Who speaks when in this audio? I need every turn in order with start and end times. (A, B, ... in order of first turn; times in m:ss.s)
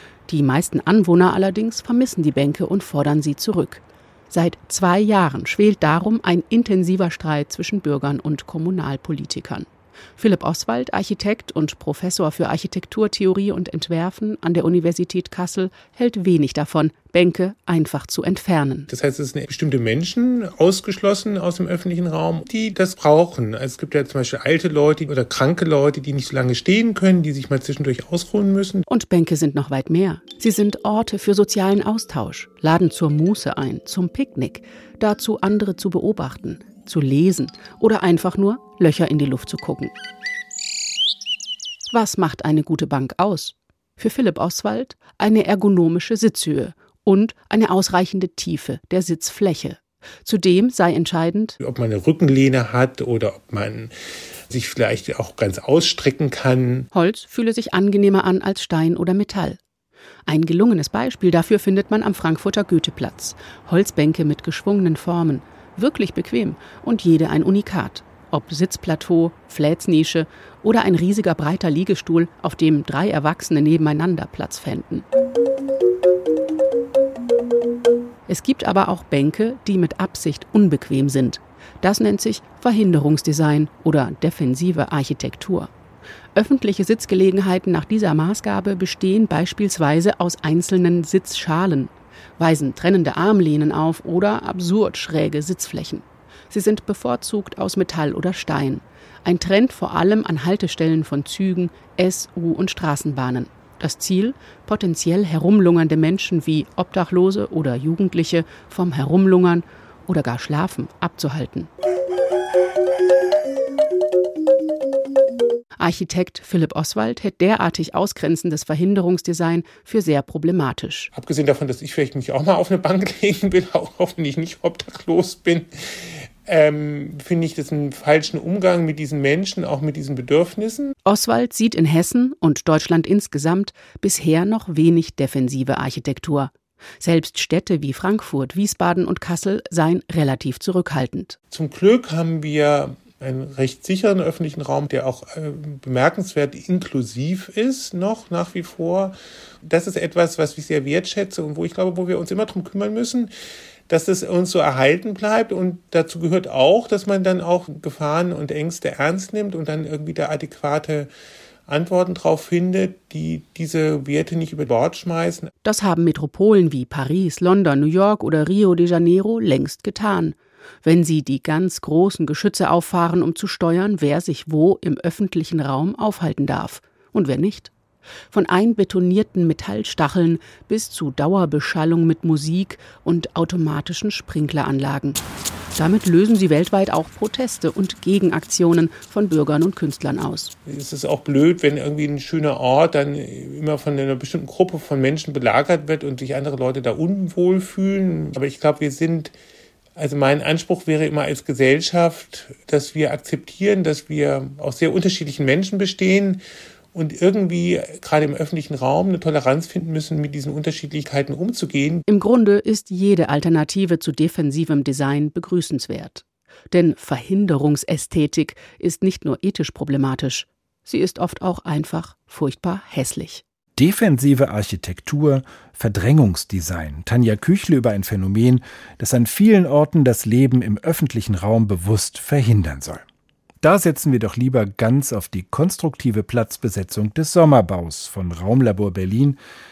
0:00.3-0:18.9 A
0:18.9-0:28.8 B
0:28.9-0:39.9 A
0:41.9-0:51.6 A
0:51.6-0:53.9 B
0:54.5-0:56.9 B
0:56.9-0:59.6 A
1:00.3-1:15.0 A
1:18.3-1:25.7 A
1:26.3-1:51.7 A
1:55.8-2:01.1 A
2:01.1-2:10.9 B
2:11.0-2:21.4 A
2:21.5-2:33.3 B
2:33.9-2:41.1 B
2:41.7-2:45.5 B
2:45.6-2:57.7 A
2:58.3-3:05.2 A
3:05.8-3:10.5 A
3:10.6-3:19.3 B
3:20.0-3:26.4 B
3:26.9-3:32.0 B
3:32.1-3:43.4 A
3:43.8-3:53.0 C
3:53.6-3:59.4 C